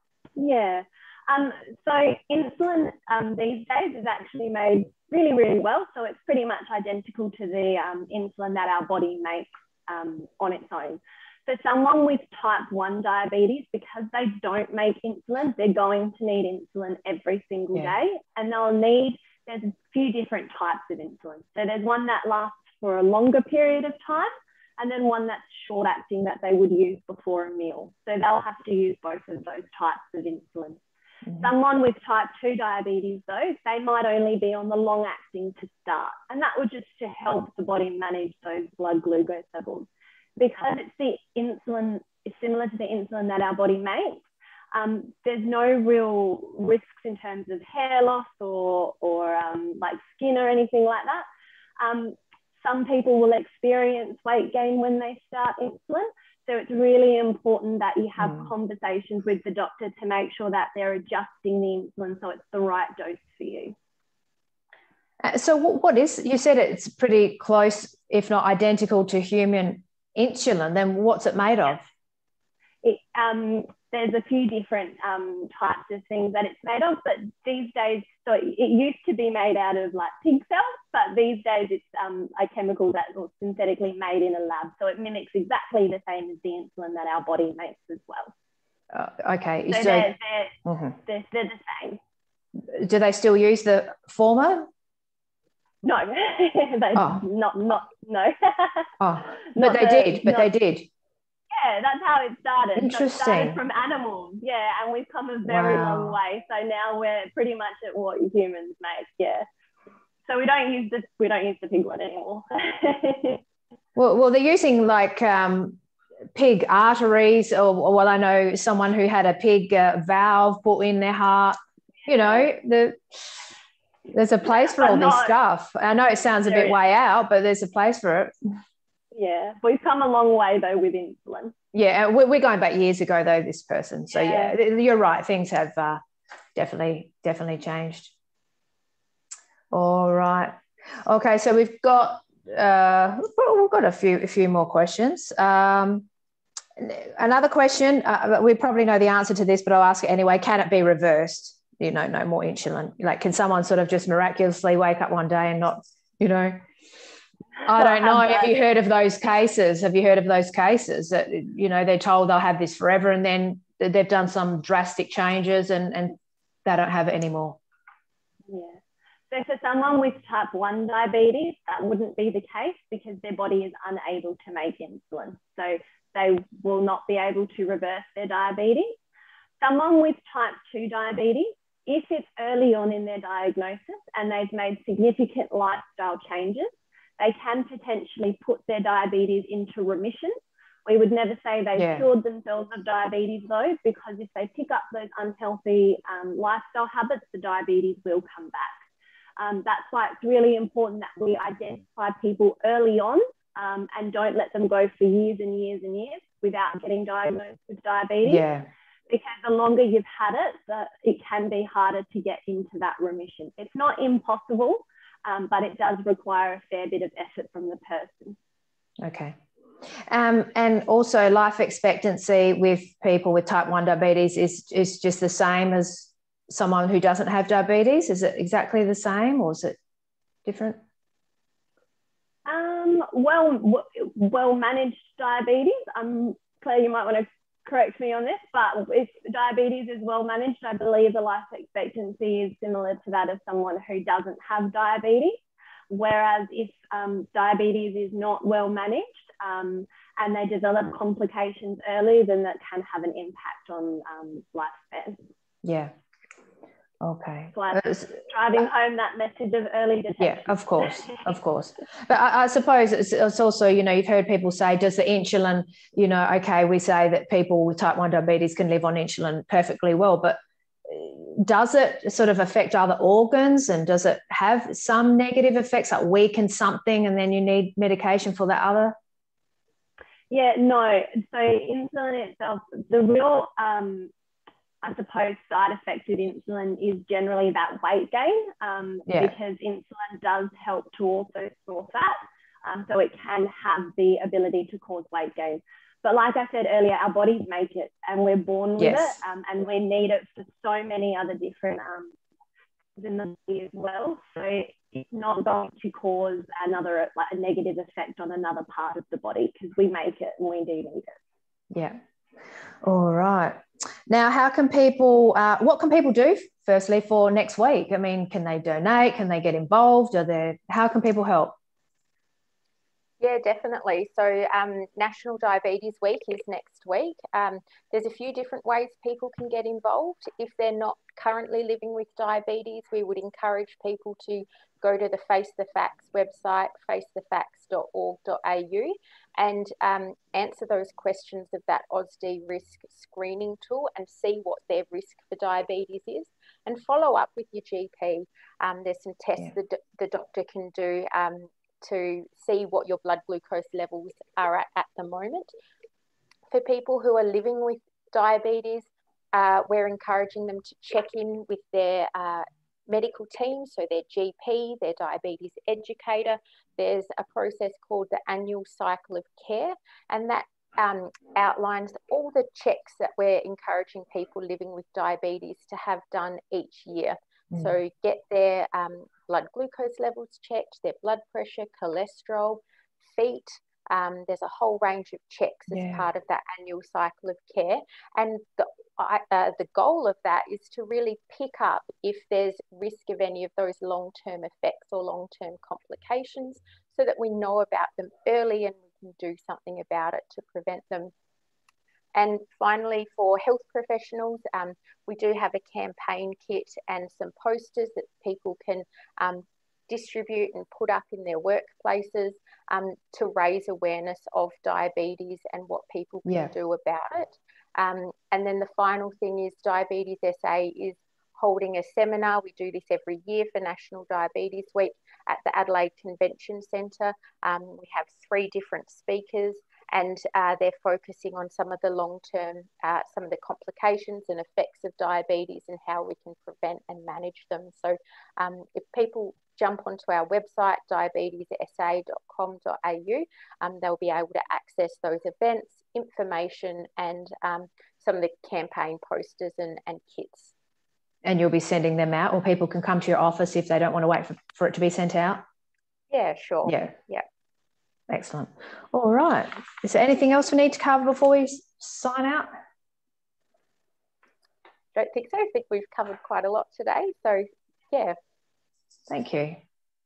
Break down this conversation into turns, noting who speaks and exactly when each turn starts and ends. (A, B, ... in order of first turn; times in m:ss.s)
0:00.4-0:30.8 A
0:31.4-0:51.2 A
0:51.8-1:03.7 A
0:58.2-0:58.5 B
1:05.2-1:11.8 B
1:12.8-1:28.3 A
1:28.9-1:30.1 B
1:29.7-1:32.0 A
1:30.6-1:31.0 B
1:32.6-1:34.7 B
1:35.8-1:40.5 A
1:36.9-1:37.2 B
1:39.0-1:40.9 B
1:41.5-1:49.4 A
1:42.8-1:43.6 B
1:45.5-1:46.2 B
1:50.2-1:53.4 A
1:54.0-1:55.8 B
1:56.3-2:03.5 B
2:02.1-2:02.5 A
2:04.1-2:08.3 B
2:04.4-2:05.4 A
2:06.4-2:06.8 A
2:09.1-2:11.5 A
2:11.7-2:16.0 B
2:14.1-2:14.5 A
2:16.5-2:18.1 B
2:19.7-2:26.1 B
2:26.8-2:36.6 B
2:37.6-2:47.6 B
2:37.7-2:38.6 A
2:48.5-2:59.0 A
2:59.6-3:18.8 A
3:11.8-3:12.1 B
3:19.4-3:28.4 A
3:28.2-3:28.7 B
3:29.1-3:38.4 A
3:39.0-3:39.4 B
3:40.1-3:49.8 B
3:50.4-3:50.8 B
3:52.4-4:15.2 A
4:15.6-4:15.9 B
4:17.0-4:18.2 B
4:17.5-4:21.0 A
4:20.2-4:39.0 B
4:40.3-4:44.1 A
4:44.8-5:02.1 A
4:49.1-4:49.3 B
4:58.8-4:59.2 B
5:03.0-5:11.2 A
5:11.7-5:12.0 B
5:12.8-5:21.6 B
5:23.2-5:55.5 C
5:56.5-6:41.1 C
6:25.7-6:26.1 B
6:42.1-7:30.5 C
6:56.2-6:56.5 B
7:31.2-7:35.4 B
7:36.1-7:37.2 C
7:36.6-7:36.9 B
7:38.1-7:42.5 B
7:44.9-7:48.2 C
7:49.1-7:49.6 B